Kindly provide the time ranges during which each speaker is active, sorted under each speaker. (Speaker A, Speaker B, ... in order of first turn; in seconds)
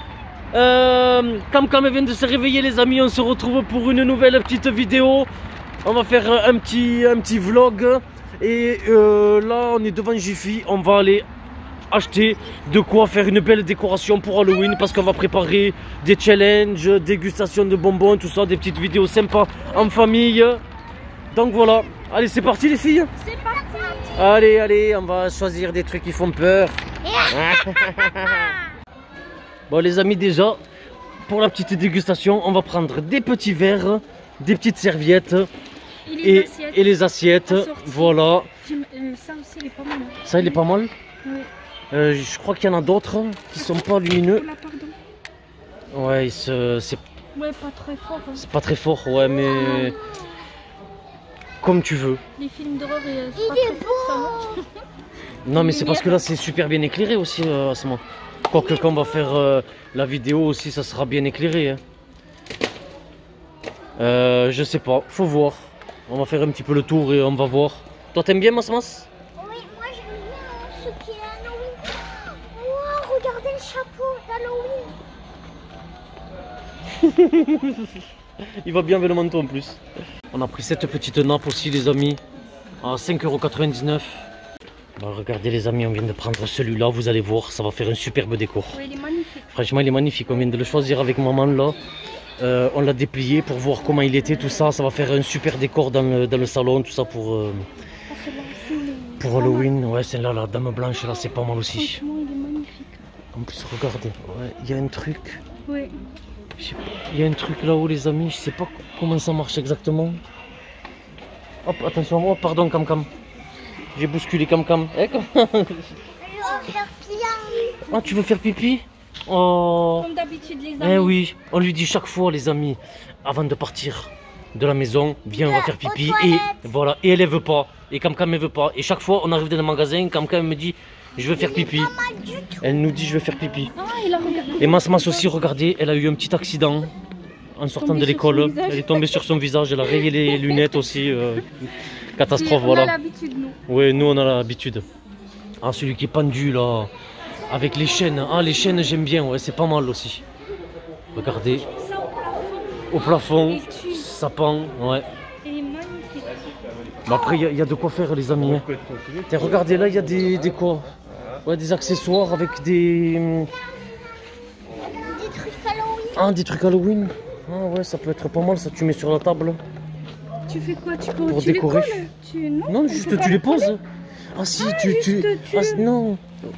Speaker A: 0.5-5.3, 5.8-11.2, 11.9-20.6, 21.3-23.1, 24.1-28.5, 29.7-30.6, 31.3-35.5, 36.2-38.5, 40.2-40.9, 41.9-44.5, 45.9-47.0, 48.3-50.0, 51.6-52.2, 55.4-61.8, 64.0-69.1, 77.0-77.9, 78.6-79.8, 80.3-82.2, 82.8-84.3, 85.0-88.8, 89.5-91.8, 92.4-97.7, 99.2-102.0, 103.3-105.4, 106.6-110.2, 111.6-113.1, 113.9-115.9, 117.9-120.1, 120.8-131.9, 132.6-133.7, 134.6-136.9, 137.6-141.6, 142.2-142.9, 143.7-144.8, 145.6-146.9, 147.5-150.2, 151.1-151.7, 152.9-155.0, 157.1-158.7, 159.3-160.9, 161.4-163.5, 166.1-169.6, 171.2-172.1, 172.7-173.8, 174.3-176.2
Speaker B: 12.2-12.7, 23.4-24.4, 27.1-28.5, 49.3-50.0, 53.3-54.6, 58.5-59.4, 69.4-75.0, 116.2-117.9, 125.3-126.7, 131.2-132.8, 165.0-166.3
Speaker C: 23.2-24.3, 36.0-40.6, 41.2-41.5, 43.5-44.9, 47.3-48.4, 49.5-50.0, 52.4-54.7, 55.5-56.2, 88.7-89.5, 93.9-94.5, 98.1-99.7, 101.7-103.0, 105.7-106.0, 120.0-121.2, 133.7-135.3, 137.8-139.2, 140.3-140.7, 142.3-143.6, 148.1-148.9, 151.4-154.1, 155.4-156.4, 157.1-157.4, 170.5-173.7, 174.5-175.8